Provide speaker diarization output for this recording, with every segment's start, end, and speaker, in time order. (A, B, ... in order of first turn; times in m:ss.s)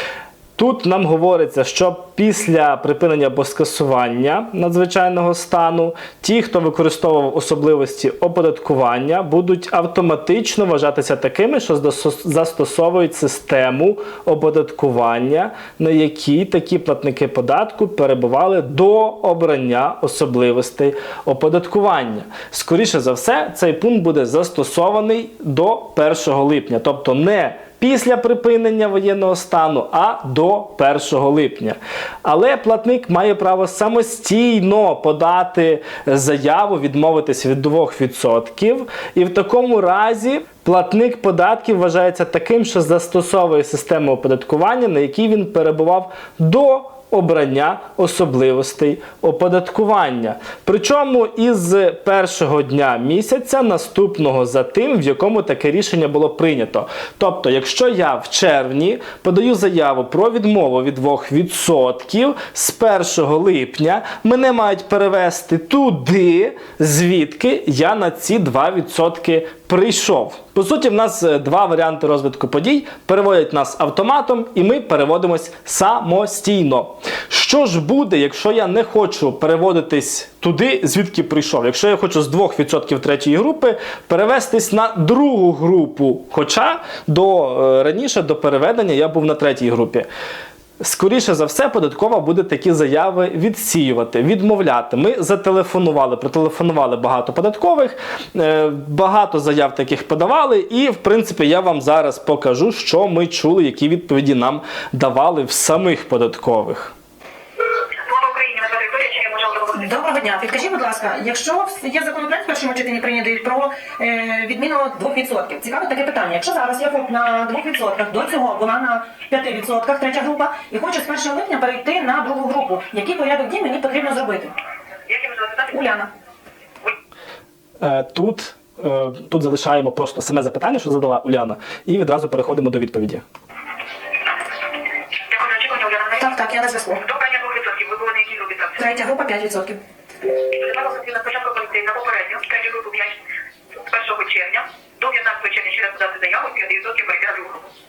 0:00.6-1:30.1 A
1:30.8-1:46.9 A
1:47.8-1:49.9 B
1:49.7-2:04.5 C
2:05.0-2:05.8 B
2:05.7-2:06.1 C
2:07.8-2:13.2 A
2:15.2-2:16.3 B
2:16.2-2:17.0 C
2:17.0-2:18.9 B
2:18.8-2:19.8 C
2:20.2-2:27.7 B